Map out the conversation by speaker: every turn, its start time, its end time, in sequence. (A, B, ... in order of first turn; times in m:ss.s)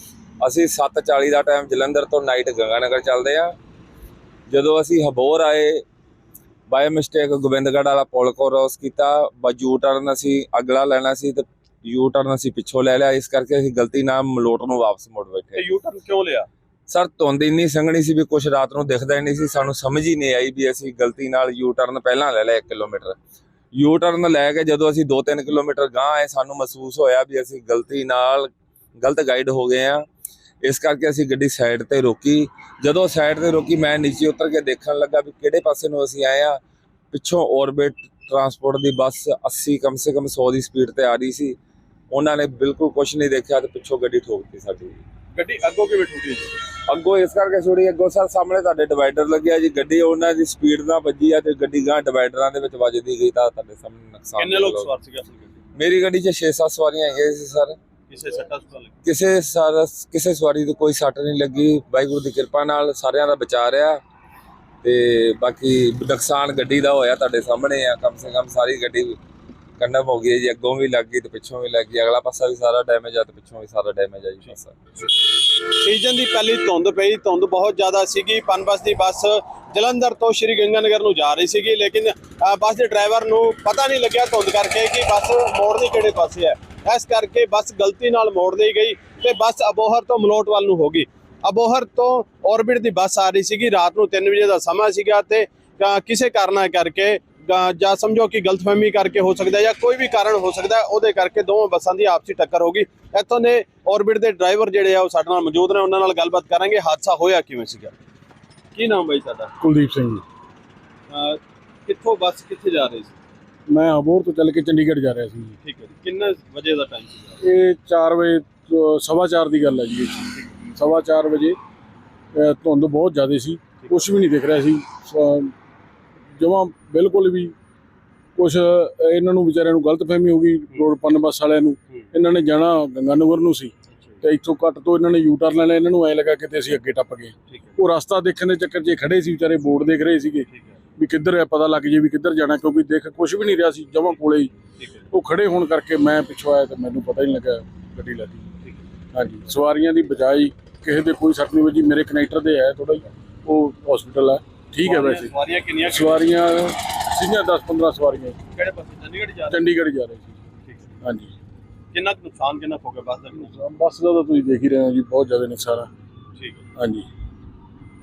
0:00.4-0:03.6 A
0:04.5-0:05.8 A
0:06.7-0:15.6 A
0:15.6-0:16.5 B
0:16.9-0:23.2 A
0:23.8-0:30.0 A
0:30.6-0:36.6 A
0:37.1-0:41.6 A
0:42.1-0:45.0 A
0:45.4-0:46.6 B
0:46.9-0:54.9 A
0:54.4-0:55.6 B
0:55.8-0:57.8 A
0:58.1-0:59.0 B
0:59.0-1:04.0 A
1:04.8-1:09.2 A
1:09.8-1:14.7 A
1:15.6-1:47.9 B
1:48.7-1:49.5 B
1:49.6-1:50.2 C
1:51.1-1:53.2 B
1:53.7-1:55.6 C
1:55.6-1:57.4 B
1:57.4-2:01.6 C
2:02.3-2:05.5 C
2:06.4-2:07.6 C
2:08.4-2:24.5 C
2:17.5-2:17.8 B
2:20.5-2:20.8 B
2:24.8-2:25.1 B
2:25.1-2:28.5 C
2:29.1-2:35.3 C
2:34.8-2:36.4 B
2:35.9-2:38.4 C
2:38.5-2:39.7 B
2:39.5-2:40.3 C
2:41.0-2:41.3 C
2:41.9-2:43.5 B
2:43.5-2:45.9 C
2:46.4-2:46.6 B
2:46.8-2:47.1 C